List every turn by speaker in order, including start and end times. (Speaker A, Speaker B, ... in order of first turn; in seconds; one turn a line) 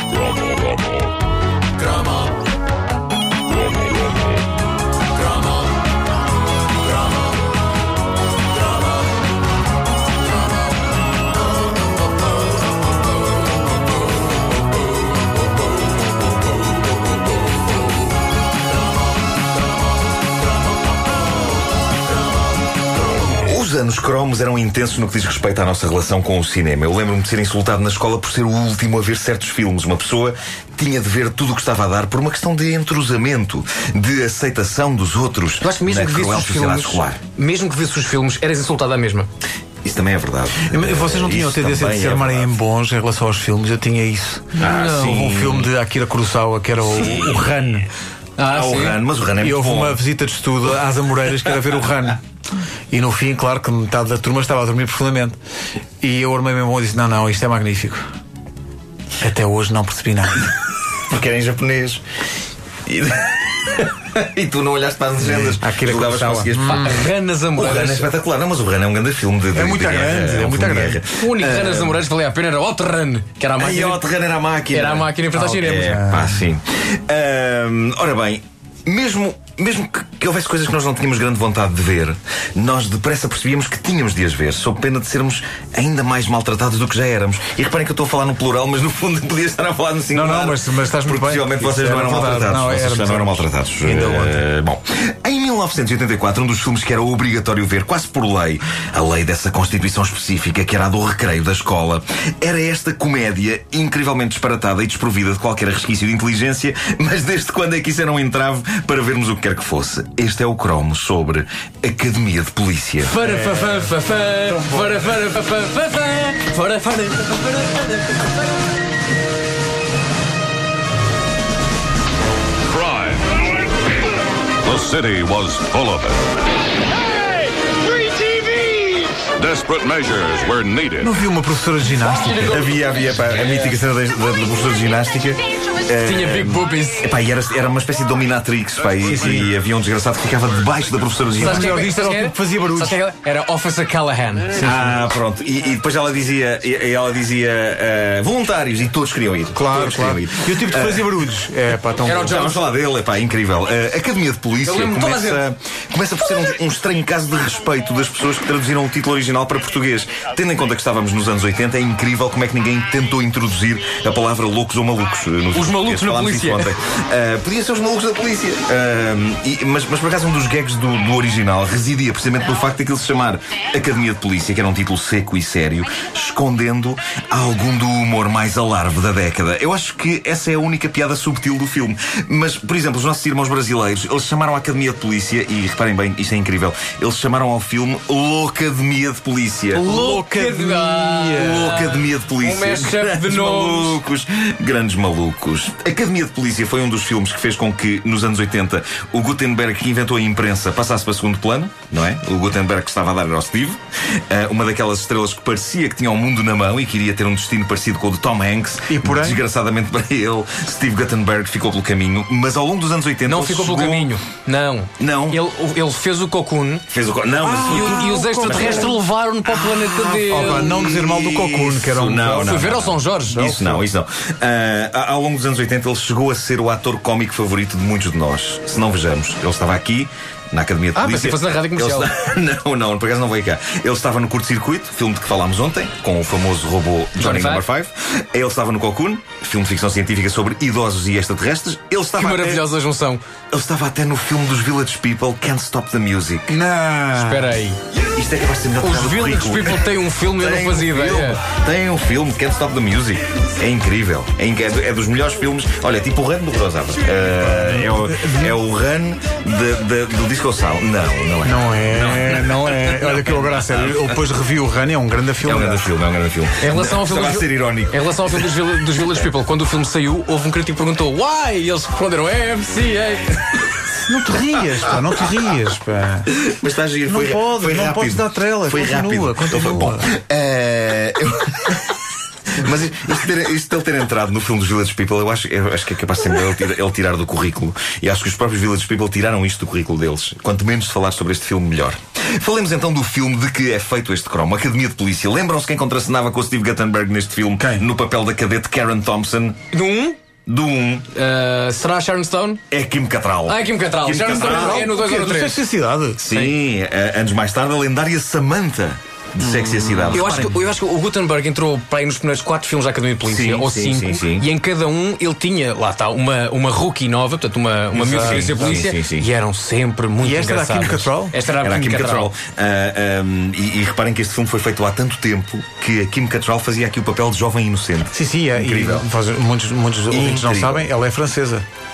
Speaker A: 0.3-0.9
Speaker B: 23.4-37.2
Speaker C: 35.6-39.3
Speaker B: 39.8-42.6
Speaker D: 40.6-47.9
Speaker B: 44.6-45.7
Speaker C: 44.6-45.2
Speaker B: 46.9-47.4
Speaker C: 48.4-49.0
Speaker B: 48.5-50.0
Speaker D: 49.4-52.2
Speaker D: 52.9-55.4
Speaker D: 56.0-58.0
Speaker D: 59.2-60.5
Speaker B: 61.1-62.0
Speaker B: 62.9-72.0
Speaker D: 65.2-67.0
Speaker C: 66.6-68.1
Speaker D: 69.5-71.0
Speaker C: 71.2-74.0
Speaker B: 73.6-113.1
Speaker C: 74.7-76.0
Speaker D: 75.4-76.3
Speaker D: 90.1-94.4
Speaker C: 113.0-118.5
Speaker D: 113.2-115.0
Speaker A: 122.7-123.3
Speaker A: 124.6-126.2
Speaker A: 129.3-131.1
Speaker D: 131.0-132.6
Speaker C: 132.0-133.8
Speaker B: 132.4-141.9
Speaker C: 136.0-137.0
Speaker D: 139.1-139.4
Speaker D: 141.4-143.0
Speaker C: 141.4-144.6
Speaker D: 144.5-145.0
Speaker B: 144.6-151.2
Speaker D: 149.5-152.5
Speaker C: 152.1-152.7
Speaker B: 152.2-189.8
Speaker C: 154.6-155.4
Speaker C: 165.5-166.7
Speaker D: 189.7-191.8
Speaker C: 189.8-194.0
Speaker B: 191.4-214.2
Speaker D: 208.9-209.4
Speaker C: 213.3-216.8
Speaker B: 215.0-215.4
Speaker B: 216.9-242.6
Speaker D: 217.4-219.0
Speaker C: 217.6-220.8
Speaker D: 220.3-222.6
Speaker C: 222.3-223.5
Speaker D: 223.3-223.8
Speaker C: 230.9-232.1
Speaker C: 237.2-237.6
Speaker C: 242.2-243.2
Speaker B: 243.5-246.6
Speaker D: 246.5-247.5
Speaker C: 247.1-247.8
Speaker B: 248.1-264.1
Speaker C: 248.8-251.4
Speaker D: 257.4-258.6
Speaker D: 261.4-265.9
Speaker B: 265.4-268.5
Speaker C: 266.6-273.6
Speaker D: 274.1-276.3
Speaker B: 276.3-282.0
Speaker D: 277.1-280.1
Speaker B: 282.5-299.6
Speaker D: 297.6-297.9
Speaker C: 299.7-300.2
Speaker B: 300.5-301.1
Speaker C: 301.1-302.6
Speaker B: 302.7-304.9
Speaker C: 303.5-305.6
Speaker D: 304.3-306.3
Speaker B: 306.2-310.4
Speaker D: 309.4-310.6
Speaker C: 310.1-322.3
Speaker B: 313.3-314.5
Speaker D: 317.9-318.7
Speaker B: 318.1-319.3
Speaker D: 320.2-321.3
Speaker B: 321.6-329.1
Speaker D: 328.1-331.6
Speaker B: 330.1-330.9